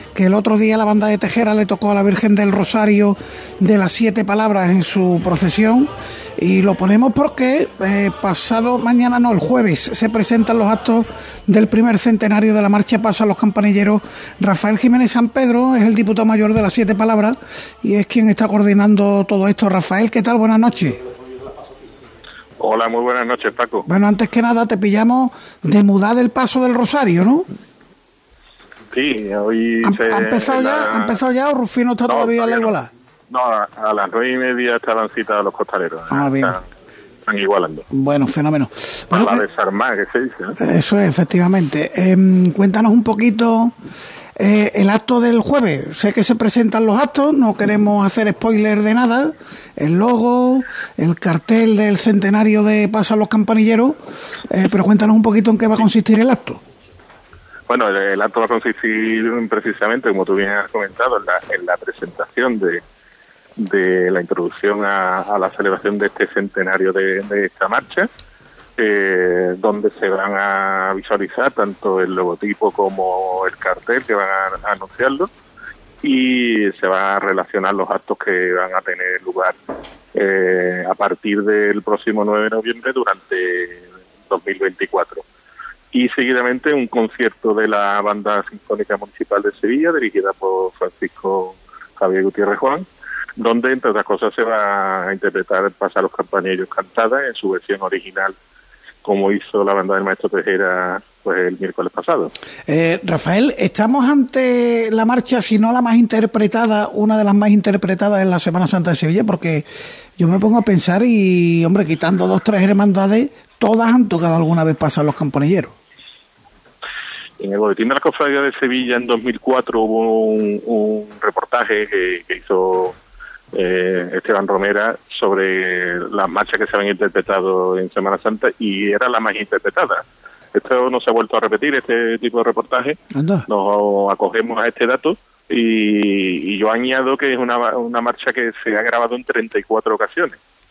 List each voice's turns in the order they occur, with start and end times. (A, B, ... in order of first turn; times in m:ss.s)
0:00.1-0:21.0 A
0:22.6-0:23.8 B
0:23.9-0:27.4 A
0:28.9-0:31.1 B
0:29.8-0:32.9 A
0:32.1-0:32.7 B
0:33.3-0:36.6 B
0:36.1-0:36.6 A
0:37.3-0:37.8 B
0:37.9-0:39.4 A
0:39.1-0:40.5 B
0:40.6-0:43.7 A
0:44.4-0:54.0 A
0:54.5-0:56.6 A
0:57.7-1:02.8 B
1:03.6-1:08.1 B
1:08.8-1:15.3 B
1:16.0-1:19.5 B
1:20.1-1:25.2 B
1:25.9-1:32.8 B
1:33.4-1:38.3 B
1:39.0-1:42.3 B
1:42.7-1:49.6 A
1:50.2-1:55.7 A
1:57.4-2:02.9 B
2:03.5-2:10.0 B
2:10.5-2:13.0 B
2:13.1-2:13.4 A
2:13.5-2:20.4 B